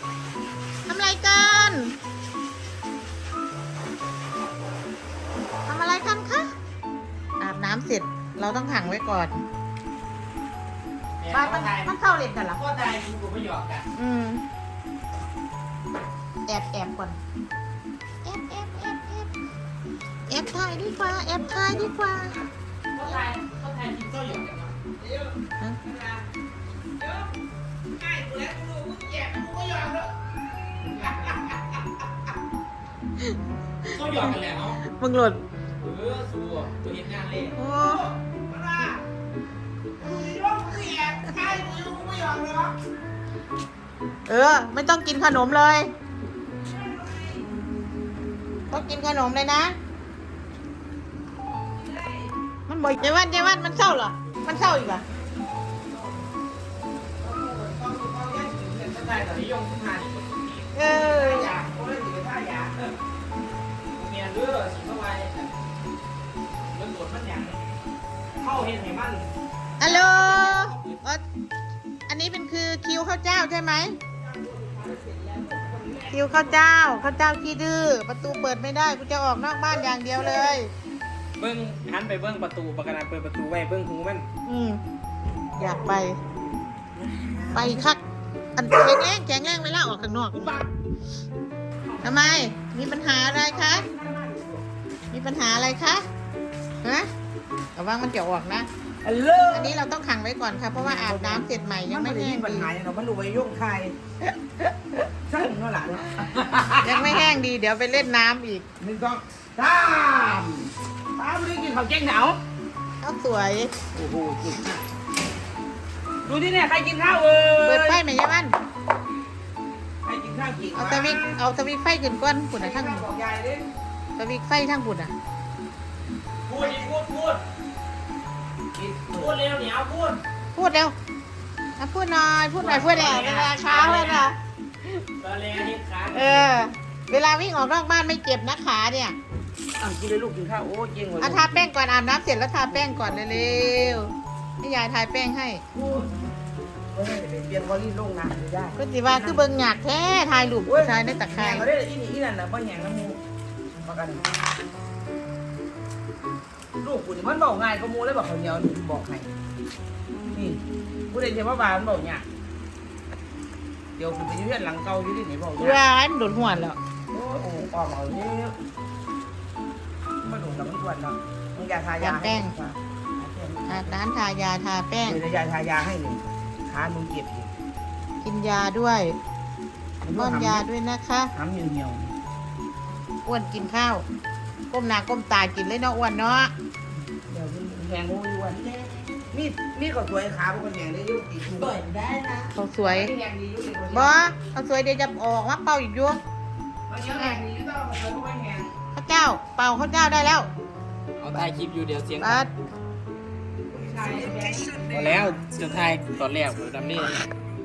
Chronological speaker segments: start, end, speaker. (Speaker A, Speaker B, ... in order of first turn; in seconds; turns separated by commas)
Speaker A: 0.9-1.9, Speaker A: 5.7-6.5, Speaker A: 7.4-9.4, Speaker B: 11.2-11.9, Speaker A: 11.3-12.6, Speaker B: 12.5-13.9, Speaker A: 13.9-14.4, Speaker A: 16.5-17.2, Speaker A: 18.2-19.3, Speaker A: 20.3-22.4, Speaker C: 20.8-22.5, Speaker B: 22.9-24.8, Speaker C: 25.0-26.2, Speaker C: 27.0-27.3, Speaker C: 28.0-30.1, Speaker C: 30.8-31.8, Speaker A: 33.2-35.4, Speaker B: 33.8-34.8, Speaker B: 35.8-37.5, Speaker A: 37.6-38.1, Speaker C: 37.6-39.0, Speaker C: 40.0-42.8, Speaker A: 44.3-45.9, Speaker C: 46.7-47.4, Speaker A: 48.7-49.8, Speaker C: 51.8-52.3, Speaker A: 52.7-55.0, Speaker C: 57.2-59.5, Speaker B: 59.0-60.7, Speaker A: 60.7-61.6, Speaker C: 60.8-62.8, Speaker B: 63.9-65.5, Speaker B: 66.7-67.6, Speaker B: 68.4-69.2, Speaker A: 69.8-71.2, Speaker C: 69.8-70.7, Speaker A: 72.1-74.0, Speaker C: 74.2-76.6, Speaker A: 76.1-80.7, Speaker C: 79.7-80.6, Speaker B: 81.4-84.2, Speaker A: 84.4-84.8, Speaker A: 85.6-86.2, Speaker C: 85.6-86.2, Speaker C: 87.1-87.9, Speaker A: 87.5-88.0, Speaker A: 88.6-90.5, Speaker C: 90.3-90.7, Speaker C: 91.9-92.3, Speaker A: 92.0-93.9, Speaker C: 93.4-94.6, Speaker A: 95.1-96.0, Speaker A: 96.8-97.1, Speaker A: 97.8-98.7, Speaker C: 99.0-99.8, Speaker A: 99.5-102.7, Speaker C: 100.7-103.9, Speaker C: 105.3-107.3, Speaker A: 106.8-108.6, Speaker C: 108.8-112.4, Speaker A: 113.0-113.7, Speaker C: 113.9-114.8, Speaker C: 116.2-118.0, Speaker A: 117.6-118.5, Speaker C: 120.0-121.4, Speaker A: 120.7-123.0, Speaker C: 122.6-123.7, Speaker A: 124.2-125.1, Speaker B: 126.5-127.4, Speaker C: 128.8-129.4, Speaker B: 129.1-130.2, Speaker A: 130.5-130.9, Speaker A: 131.8-134.4, Speaker B: 132.6-134.3, Speaker B: 135.2-136.5, Speaker A: 136.1-139.2, Speaker C: 139.8-141.7, Speaker A: 141.2-145.6, Speaker C: 142.8-143.6, Speaker C: 145.7-146.1, Speaker C: 146.9-149.5, Speaker A: 148.8-151.7, Speaker C: 150.7-153.2, Speaker C: 153.8-154.2, Speaker C: 156.8-159.3, Speaker C: 160.3-160.6, Speaker C: 161.1-162.2, Speaker C: 164.0-165.8, Speaker A: 165.6-166.8, Speaker C: 167.1-168.6, Speaker C: 170.2-174.0, Speaker A: 172.0-172.5, Speaker A: 173.7-175.2, Speaker C: 175.0-177.5, Speaker A: 178.2-179.2, Speaker C: 180.0-180.7, Speaker A: 180.1-181.3, Speaker C: 181.3-182.1, Speaker A: 183.2-184.0, Speaker A: 184.7-186.5, Speaker C: 187.3-191.9, Speaker B: 191.7-192.5, Speaker A: 192.5-193.2, Speaker C: 192.8-194.3, Speaker A: 193.9-196.2, Speaker C: 196.9-198.7, Speaker A: 197.1-197.4, Speaker A: 198.9-200.5, Speaker B: 201.2-202.5, Speaker A: 202.2-202.5, Speaker C: 203.7-205.4, Speaker B: 204.9-207.3